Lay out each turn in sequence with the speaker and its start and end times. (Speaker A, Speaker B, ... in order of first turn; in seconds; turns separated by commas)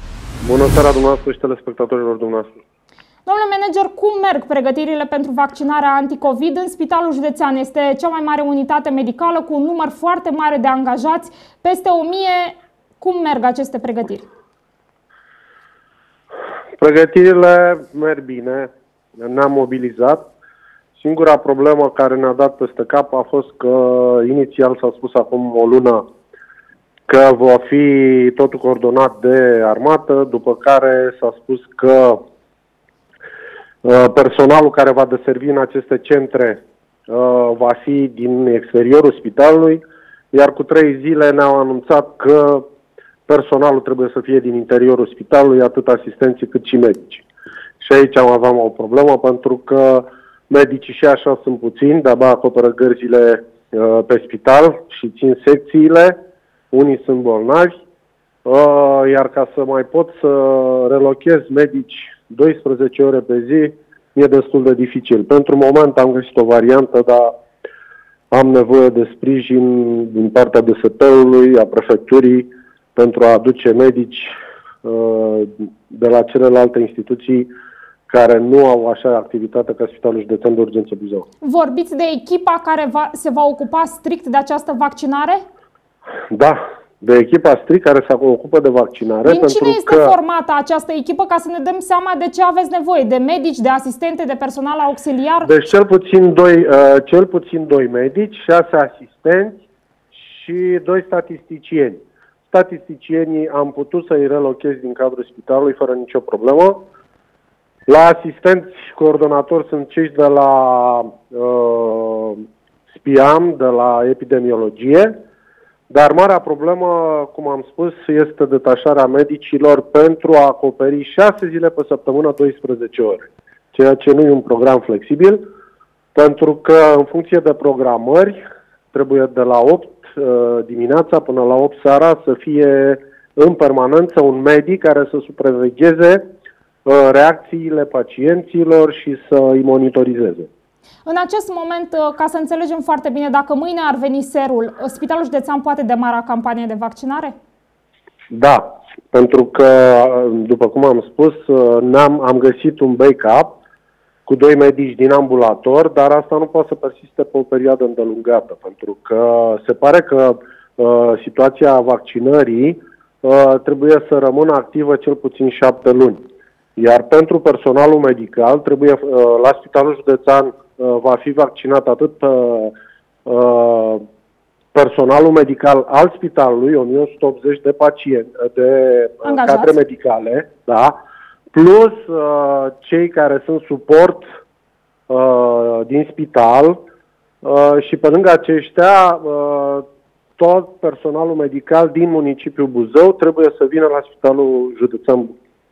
Speaker A: 0.4-2.6, Speaker B: 3.3-14.2, Speaker A: 16.8-20.3, Speaker A: 20.9-26.0, Speaker A: 27.1-32.2, Speaker A: 33.8-42.6, Speaker A: 43.3-47.2, Speaker A: 47.8-56.2, Speaker A: 56.7-57.7, Speaker A: 58.5-67.3, Speaker A: 68.3-77.5, Speaker A: 78.1-81.2, Speaker B: 81.4-85.4, Speaker A: 86.3-90.2, Speaker B: 89.2-95.5, Speaker A: 95.4-106.8, Speaker A: 107.9-115.1, Speaker A: 115.9-125.4, Speaker A: 126.2-128.4, Speaker A: 128.9-136.2, Speaker A: 136.9-140.5, Speaker B: 141.1-147.3, Speaker A: 148.3-153.6, Speaker A: 154.3-166.2, Speaker A: 166.8-172.7, Speaker A: 173.2-174.0, Speaker A: 174.7-180.9, Speaker B: 179.2-179.8, Speaker A: 181.5-184.2, Speaker A: 185.1-186.8, Speaker A: 187.4-189.8, Speaker A: 190.4-195.3